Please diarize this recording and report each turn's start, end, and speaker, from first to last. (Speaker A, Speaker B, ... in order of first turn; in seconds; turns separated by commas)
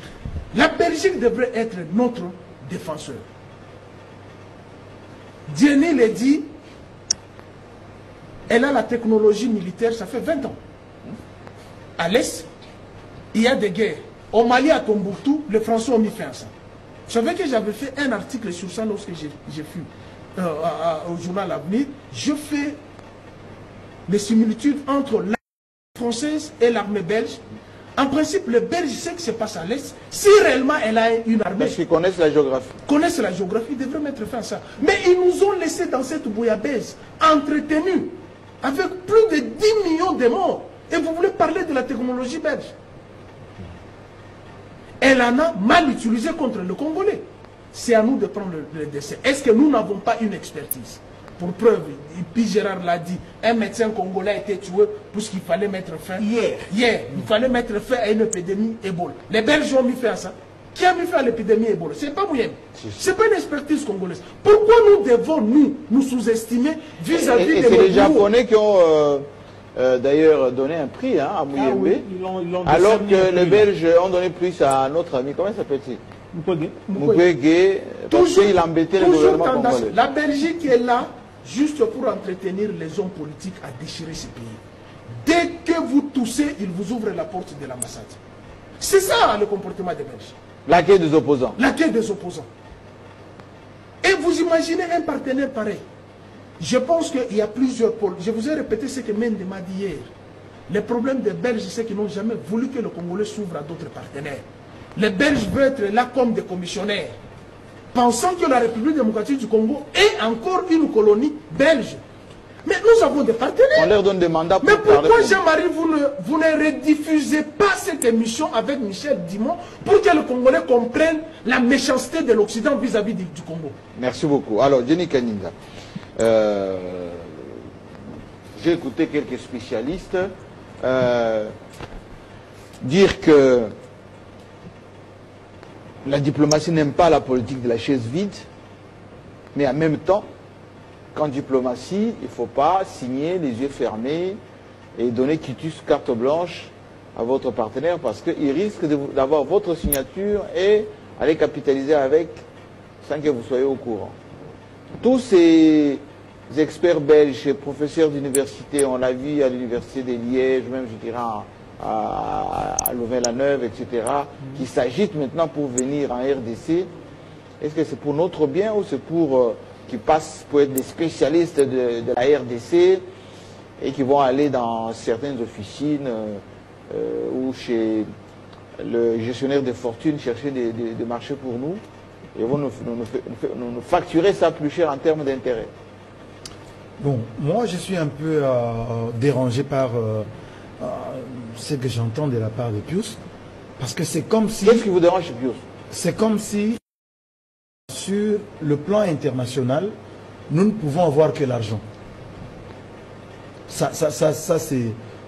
Speaker A: 0.5-3.3, Speaker A: 5.5-6.5, Speaker A: 8.5-10.6, Speaker A: 12.0-12.5, Speaker A: 13.3-16.5, Speaker A: 17.1-22.8, Speaker A: 24.1-25.4, Speaker A: 25.9-27.4, Speaker A: 28.0-31.8, Speaker B: 31.6-32.7, Speaker A: 32.9-42.7, Speaker A: 45.0-68.3, Speaker C: 56.2-56.7, Speaker B: 67.1-72.0, Speaker C: 71.5-73.7, Speaker B: 72.7-76.0, Speaker C: 76.3-77.2, Speaker B: 76.9-79.9, Speaker A: 78.1-84.6, Speaker A: 85.2-88.2, Speaker A: 88.8-90.4, Speaker B: 90.7-91.6, Speaker A: 91.6-92.5, Speaker A: 94.0-95.8, Speaker A: 96.6-100.1, Speaker A: 100.7-104.4, Speaker A: 105.0-107.2, Speaker A: 107.9-112.0, Speaker A: 112.7-113.9, Speaker B: 113.8-115.4, Speaker A: 114.6-123.8, Speaker B: 124.0-125.5, Speaker B: 126.2-127.5, Speaker B: 128.6-131.5, Speaker B: 132.8-133.7, Speaker B: 136.0-138.5, Speaker B: 139.5-140.3, Speaker B: 141.1-144.4, Speaker B: 145.0-152.4, Speaker B: 153.0-154.2, Speaker B: 155.0-166.9, Speaker B: 167.6-173.1, Speaker B: 173.8-178.1, Speaker B: 178.8-181.8, Speaker B: 182.3-185.7, Speaker D: 187.0-190.3, Speaker D: 190.8-193.2, Speaker D: 193.8-194.9, Speaker B: 194.6-195.6, Speaker D: 195.9-196.8, Speaker D: 197.9-199.9, Speaker D: 200.5-201.8, Speaker D: 203.7-205.0